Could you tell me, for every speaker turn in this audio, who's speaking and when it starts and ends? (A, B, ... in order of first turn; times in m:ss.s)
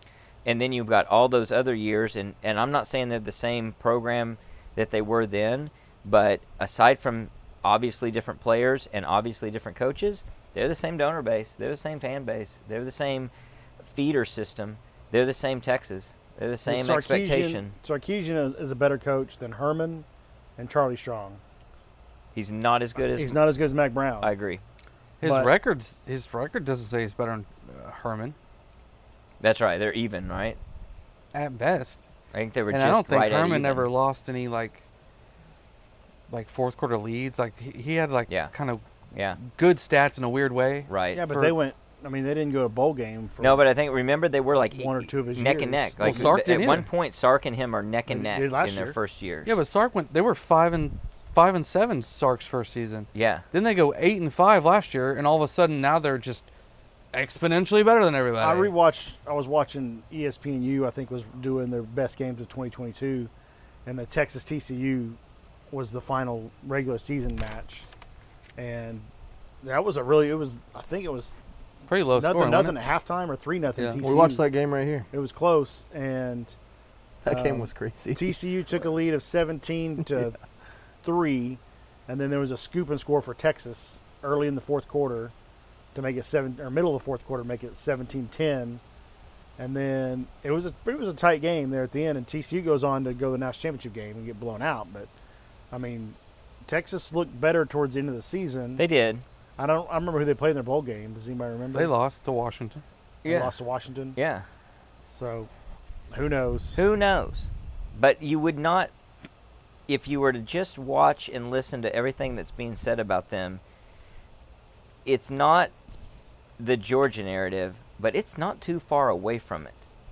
0:00.4-0:13.3 A
0:13.8-0:17.7 A
0:16.6-0:20.0 B
0:20.6-0:21.4 B
0:22.3-0:23.4 A
0:23.2-0:24.3 B
0:24.2-0:24.6 A
0:25.2-0:28.3 C
0:25.2-0:25.5 B
0:29.4-0:30.6 A
0:31.3-0:32.0 C
0:32.3-0:33.9 A
0:32.7-0:34.8 C
0:36.3-0:38.8 C
0:39.1-0:39.4 A
0:39.4-0:41.6 C
0:40.9-0:41.2 A
0:41.1-0:43.6 B
0:43.4-0:49.6 A
0:44.8-0:46.3 B
0:46.0-0:46.9 C
0:48.1-0:49.0 B
0:49.4-0:56.5 C
0:53.1-0:53.4 A
0:57.1-0:58.7 C
0:58.4-1:03.3 B
1:03.8-1:05.2 B
1:05.7-1:07.9 B
1:08.6-1:09.1 B
1:09.6-1:11.3 B
1:11.9-1:12.7 C
1:12.1-1:14.4 B
1:14.0-1:15.1 D
1:15.1-1:16.5 B
1:17.2-1:18.4 D
1:17.3-1:20.4 B
1:21.0-1:25.3 B
1:25.9-1:28.8 B
1:29.6-1:35.1 B
1:35.7-1:38.8 B
1:38.8-1:39.2 A
1:39.6-1:41.9 B
1:41.7-1:42.8 C
1:43.2-1:43.5 A
1:43.2-1:44.2 B
1:44.1-1:44.4 A
1:45.1-1:45.5 B
1:46.1-1:46.8 B
1:46.7-1:48.9 A
1:49.9-1:53.6 A
1:55.0-1:55.7 A
1:56.6-1:59.8 A